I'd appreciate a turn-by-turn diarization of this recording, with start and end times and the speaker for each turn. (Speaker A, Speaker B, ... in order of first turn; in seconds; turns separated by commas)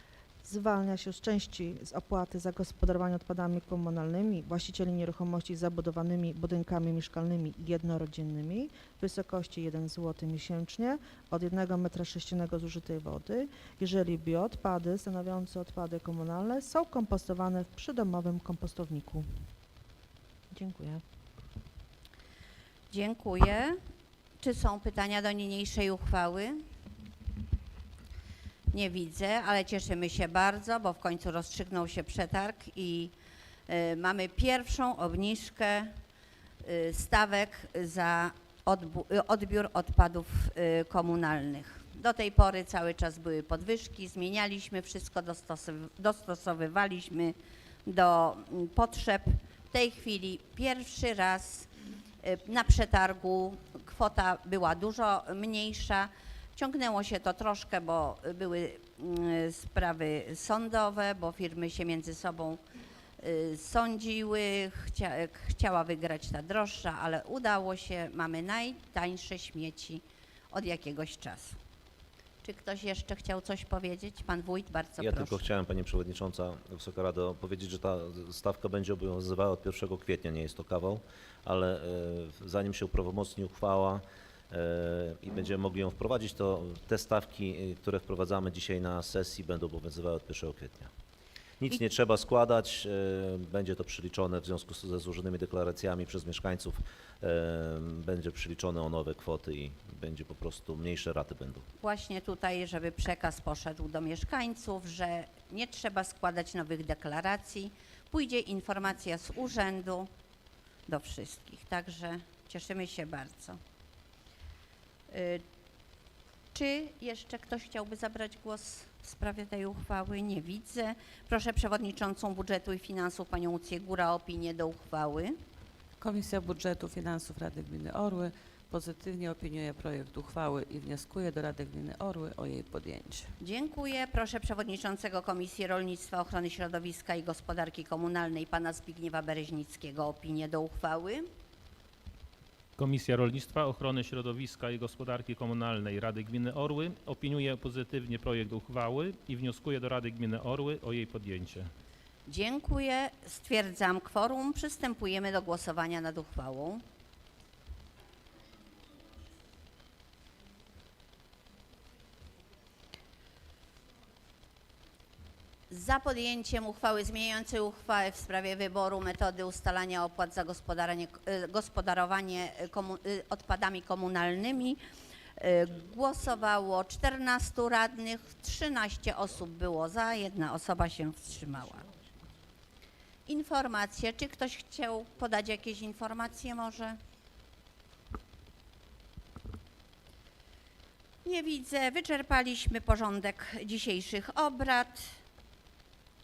Speaker A: 0.4-19.3, Speaker A: 20.5-21.0, Speaker B: 22.9-23.8, Speaker B: 24.4-26.6, Speaker B: 28.7-33.1, Speaker B: 33.7-35.9, Speaker B: 36.6-51.7, Speaker B: 52.2-62.6, Speaker B: 63.2-71.6, Speaker B: 72.4-75.5, Speaker C: 75.0-90.9, Speaker C: 91.6-101.7, Speaker B: 101.8-110.1, Speaker B: 110.9-113.6, Speaker B: 115.1-115.4, Speaker B: 116.5-125.3, Speaker D: 126.0-133.3, Speaker B: 133.4-141.3, Speaker E: 142.8-151.7, Speaker B: 152.3-156.8, Speaker B: 165.7-174.8, Speaker B: 175.4-181.9, Speaker B: 183.3-187.0, Speaker B: 191.2-195.2